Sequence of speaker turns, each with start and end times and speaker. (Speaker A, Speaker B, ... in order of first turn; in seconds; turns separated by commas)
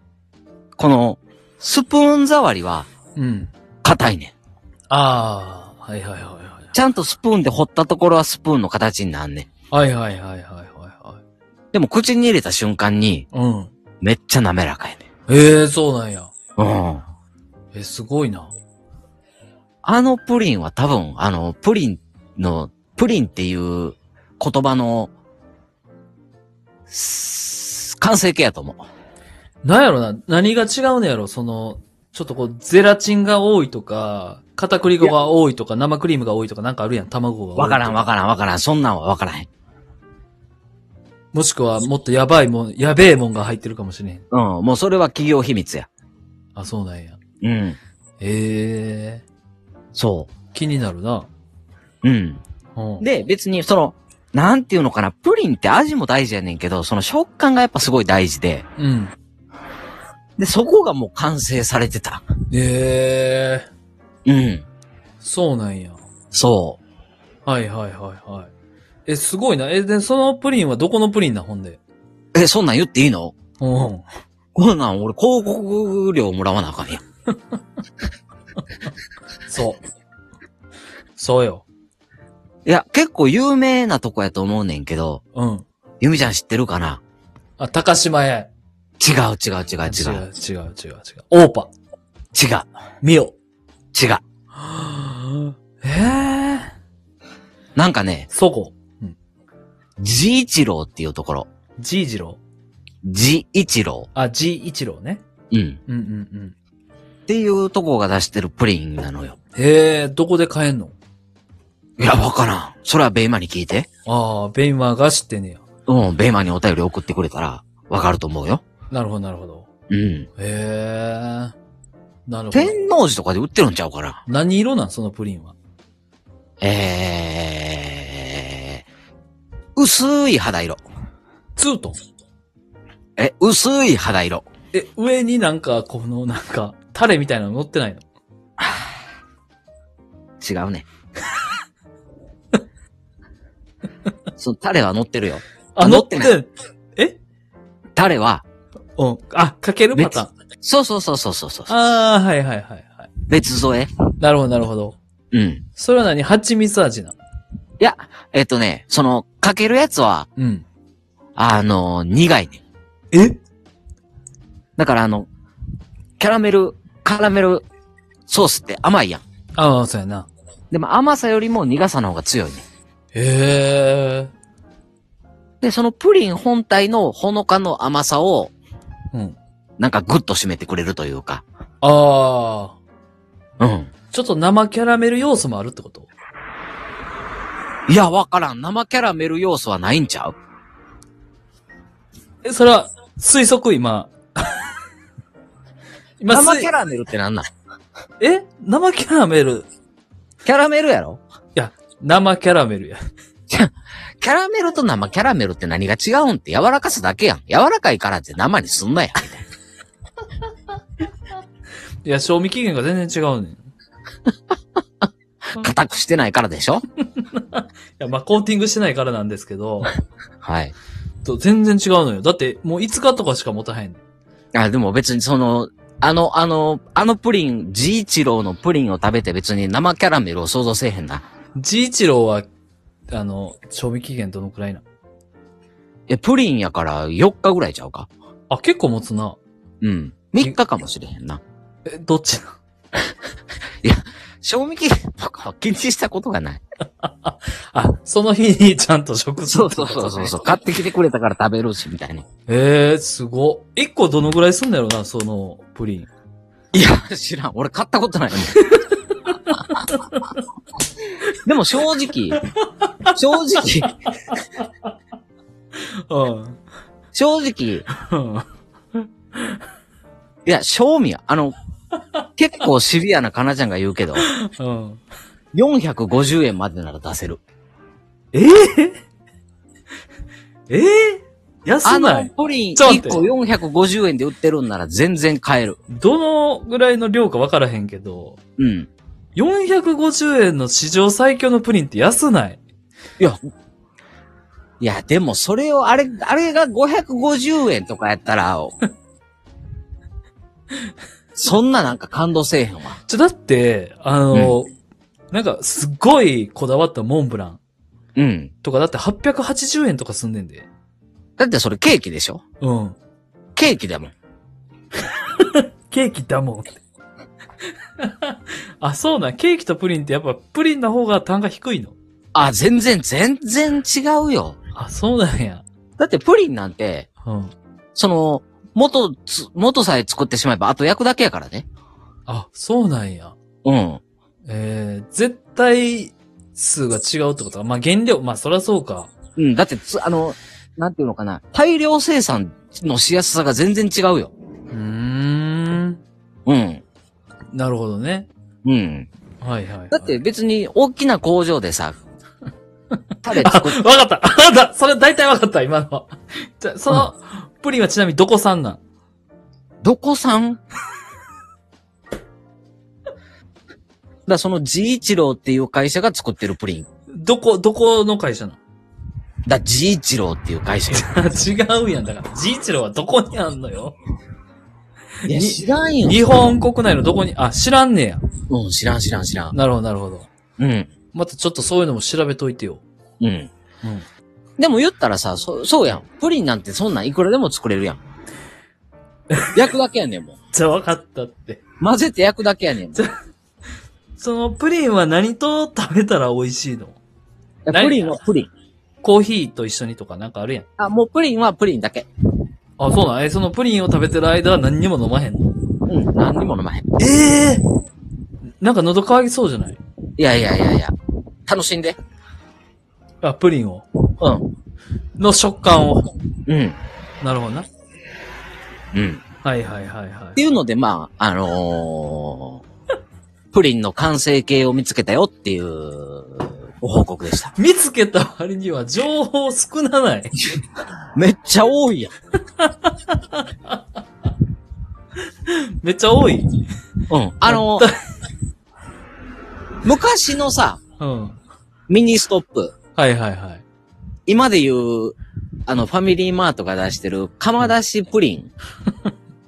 Speaker A: 0.8-2.9, Speaker B: 3.2-3.5, Speaker A: 3.8-4.3, Speaker B: 4.9-6.7, Speaker A: 6.7-9.5, Speaker B: 9.7-11.2, Speaker A: 11.7-13.3, Speaker B: 13.3-13.7, Speaker A: 14.0-15.0, Speaker B: 15.3-16.3, Speaker A: 16.6-17.0, Speaker B: 17.7-18.5, Speaker A: 19.8-25.1, Speaker A: 26.9-28.8, Speaker B: 29.6-38.1, Speaker A: 37.6-39.5, Speaker B: 41.3-44.3, Speaker A: 44.3-45.9, Speaker B: 46.6-47.2, Speaker A: 47.4-47.8, Speaker B: 48.2-49.2, Speaker A: 50.0-50.3, Speaker B: 50.5-51.3, Speaker A: 52.0-52.4, Speaker B: 52.8-53.0, Speaker A: 53.0-58.6, Speaker B: 58.8-59.1, Speaker A: 60.4-62.2, Speaker B: 62.5-63.7, Speaker A: 64.3-64.7, Speaker B: 65.2-66.0, Speaker A: 66.3-66.8, Speaker B: 67.5-68.5, Speaker B: 69.1-71.8, Speaker A: 72.3-73.3, Speaker B: 73.6-74.0, Speaker A: 74.5-77.0, Speaker B: 79.5-79.8, Speaker B: 81.2-81.7, Speaker A: 82.7-85.2, Speaker B: 85.3-85.7, Speaker A: 86.0-87.0, Speaker B: 87.6-88.5, Speaker A: 89.0-90.2, Speaker B: 89.9-91.7, Speaker A: 92.3-92.7, Speaker B: 93.0-93.3, Speaker A: 93.9-94.2, Speaker B: 94.6-96.7, Speaker A: 97.8-98.3, Speaker B: 98.3-99.2, Speaker A: 100.0-101.5, Speaker B: 101.8-102.4, Speaker A: 103.0-104.1, Speaker B: 104.2-105.2, Speaker A: 105.5-105.8, Speaker B: 105.9-106.5, Speaker A: 107.3-109.4, Speaker B: 109.6-111.0, Speaker A: 112.0-113.9, Speaker B: 114.1-115.6, Speaker A: 115.9-118.6, Speaker B: 118.9-119.7, Speaker A: 119.9-120.3, Speaker B: 120.4-121.5, Speaker B: 122.3-122.8, Speaker A: 122.5-124.2, Speaker B: 124.3-125.5, Speaker A: 126.6-128.8, Speaker A: 129.8-130.8, Speaker B: 131.6-132.0, Speaker A: 133.2-134.5, Speaker B: 134.7-138.0, Speaker A: 138.6-138.8, Speaker A: 140.4-140.9, Speaker A: 144.4-146.4, Speaker B: 145.8-147.2, Speaker A: 148.0-148.4, Speaker B: 149.0-150.3, Speaker A: 149.9-151.7, Speaker B: 151.7-153.1, Speaker A: 153.3-153.9, Speaker B: 154.2-155.0, Speaker A: 155.3-155.6, Speaker B: 155.8-157.2, Speaker A: 157.8-160.3, Speaker B: 160.4-160.7, Speaker A: 161.4-162.6, Speaker B: 163.1-163.4, Speaker A: 164.8-165.3, Speaker A: 166.2-167.7, Speaker A: 168.3-169.2, Speaker B: 169.6-170.3, Speaker A: 170.7-172.6, Speaker B: 173.1-174.3, Speaker A: 175.6-178.5, Speaker A: 179.8-181.4, Speaker B: 181.8-182.8, Speaker A: 183.6-183.9, Speaker B: 184.1-186.1, Speaker A: 187.9-190.4, Speaker B: 192.4-194.6, Speaker B: 196.2-196.7, Speaker A: 196.3-197.5, Speaker B: 198.2-199.7, Speaker A: 200.4-201.2, Speaker B: 201.6-203.0, Speaker A: 203.5-209.4, Speaker B: 212.0-213.6, Speaker A: 215.6-216.8, Speaker B: 217.2-219.9, Speaker A: 220.4-220.8, Speaker B: 221.2-224.0, Speaker A: 224.5-231.2, Speaker B: 231.6-232.5, Speaker B: 233.1-234.8, Speaker A: 236.1-238.1, Speaker B: 238.5-239.4, Speaker A: 239.8-241.4, Speaker B: 241.9-242.6, Speaker A: 243.8-246.6, Speaker B: 247.0-250.4, Speaker A: 249.5-252.2, Speaker B: 252.5-256.1, Speaker A: 256.7-258.6, Speaker B: 258.6-260.3, Speaker A: 261.4-262.4, Speaker B: 262.4-263.1, Speaker A: 263.1-263.9, Speaker B: 264.3-264.7, Speaker B: 265.8-266.6, Speaker A: 267.1-267.9, Speaker B: 268.0-268.5, Speaker B: 269.0-269.6, Speaker A: 270.5-271.6, Speaker A: 272.4-274.3, Speaker B: 274.2-275.0, Speaker A: 275.5-277.4, Speaker B: 278.3-279.0, Speaker B: 280.7-283.3, Speaker A: 281.8-285.8, Speaker B: 285.9-288.4, Speaker A: 288.6-288.9, Speaker B: 289.4-292.6, Speaker A: 294.8-298.8, Speaker A: 301.4-303.0, Speaker B: 303.1-304.7, Speaker A: 304.3-304.6, Speaker B: 305.3-307.6, Speaker A: 308.2-308.5, Speaker B: 308.6-310.7, Speaker A: 311.4-312.4, Speaker B: 312.6-313.0, Speaker A: 313.6-314.1, Speaker B: 315.2-316.8, Speaker B: 318.0-322.0, Speaker A: 322.3-324.6, Speaker B: 324.8-325.6, Speaker A: 326.0-327.1, Speaker B: 327.2-327.5, Speaker A: 327.9-331.7, Speaker B: 332.3-333.4, Speaker A: 333.6-334.0, Speaker B: 334.5-339.1, Speaker A: 339.4-344.3, Speaker B: 344.7-346.0, Speaker A: 346.5-346.8, Speaker B: 347.5-348.3, Speaker A: 348.6-349.1, Speaker B: 349.4-350.2, Speaker A: 349.9-352.0, Speaker A: 353.2-353.8, Speaker B: 353.4-358.8, Speaker A: 359.8-360.6, Speaker A: 364.3-366.9, Speaker B: 367.1-368.6, Speaker A: 369.5-371.1, Speaker B: 370.9-374.0, Speaker B: 375.3-378.2, Speaker A: 375.3-376.3, Speaker A: 378.5-379.6, Speaker B: 379.5-380.3, Speaker A: 380.6-380.9, Speaker B: 381.1-382.8, Speaker A: 383.2-383.5, Speaker A: 384.6-388.0, Speaker B: 389.3-389.6, Speaker A: 389.5-390.4, Speaker B: 390.5-391.6, Speaker A: 391.8-393.0, Speaker B: 394.2-397.0, Speaker A: 397.7-398.5, Speaker B: 397.7-398.2, Speaker B: 399.0-400.7, Speaker A: 400.8-402.1, Speaker B: 402.8-405.5, Speaker A: 405.9-406.9, Speaker B: 407.0-407.6, Speaker B: 408.6-409.8, Speaker A: 410.2-410.9, Speaker A: 411.5-412.0, Speaker B: 413.2-413.9, Speaker A: 414.2-414.5, Speaker B: 415.2-416.1, Speaker A: 416.5-416.8, Speaker B: 417.2-417.7, Speaker A: 418.9-419.2, Speaker B: 419.4-420.4, Speaker A: 420.4-422.6, Speaker A: 423.5-427.5, Speaker B: 427.6-430.4, Speaker A: 431.1-432.1, Speaker B: 432.6-433.8, Speaker B: 435.4-436.6, Speaker A: 437.1-437.9, Speaker B: 437.5-438.0, Speaker A: 439.8-440.8, Speaker B: 441.0-441.4, Speaker A: 441.9-442.7, Speaker B: 443.0-443.6, Speaker A: 444.3-448.5